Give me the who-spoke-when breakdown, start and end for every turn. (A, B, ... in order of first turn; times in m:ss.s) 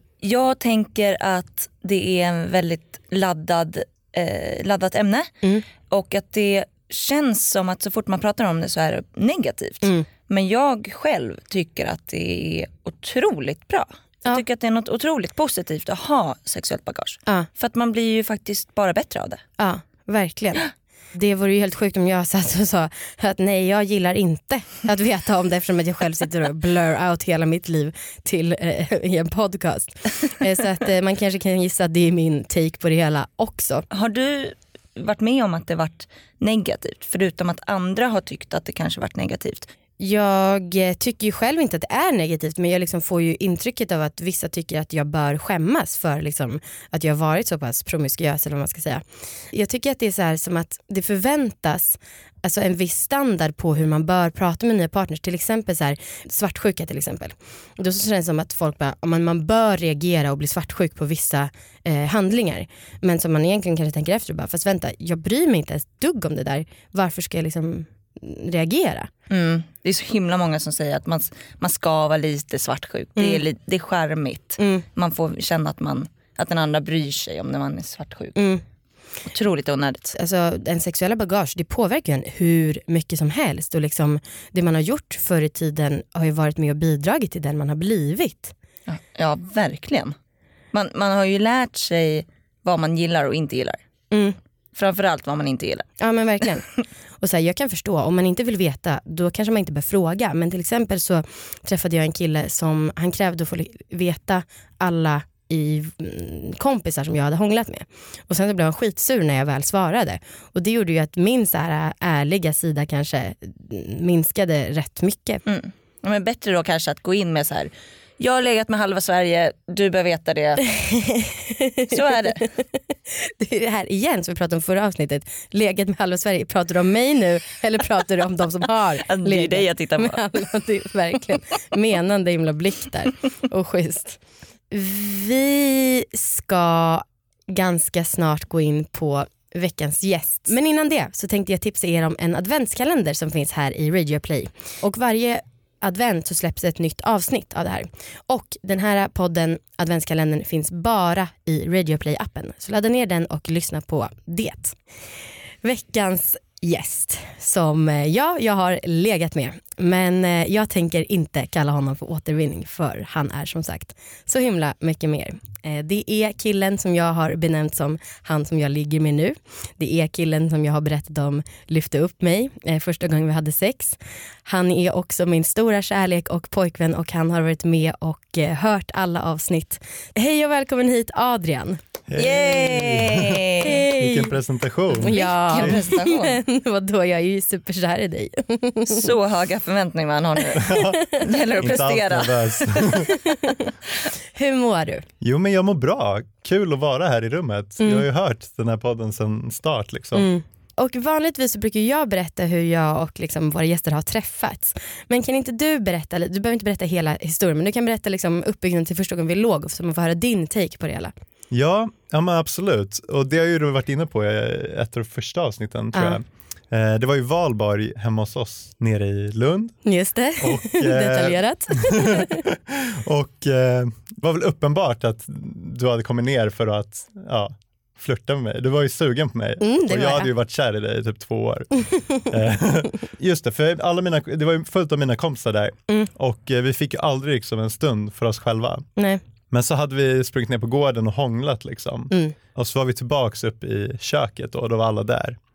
0:00.2-0:05.3 A
0:05.9-0:19.4 A
0:19.6-0:33.8 B
0:33.9-0:39.7 A
0:40.0-1:09.1 B
1:09.3-1:18.4 A
1:13.2-1:13.4 B
1:14.6-1:14.9 B
1:18.4-1:18.6 B
1:19.3-1:20.2 A
1:20.1-1:28.5 B
1:28.9-1:30.2 A
1:30.7-1:33.8 A
1:34.1-1:34.4 B
1:34.8-1:35.9 A
1:36.0-1:36.7 B
1:37.2-1:55.4 B
1:55.5-2:00.6 A
2:00.7-2:34.8 B
2:01.9-2:02.5 A
2:09.1-2:10.2 A
2:35.6-3:01.8 B
3:02.1-3:05.8 C
3:02.2-3:03.8 A
3:03.6-3:04.4 B
3:04.9-3:09.1 B
3:05.0-3:06.4 A
3:08.9-3:10.6 A
3:10.6-3:11.0 C
3:10.6-3:11.2 B
3:11.2-3:12.8 A
3:11.6-3:13.1 C
3:12.9-3:13.7 B
3:14.4-3:15.0 B
3:15.2-3:20.3 C
3:17.8-3:18.1 B
3:20.2-3:31.1 B
3:31.5-3:39.8 C
3:35.9-3:36.2 B
3:39.8-3:42.4 B
3:40.4-3:58.9 C
3:49.6-3:50.3 B
3:59.0-3:59.2 B
3:59.5-4:05.4 C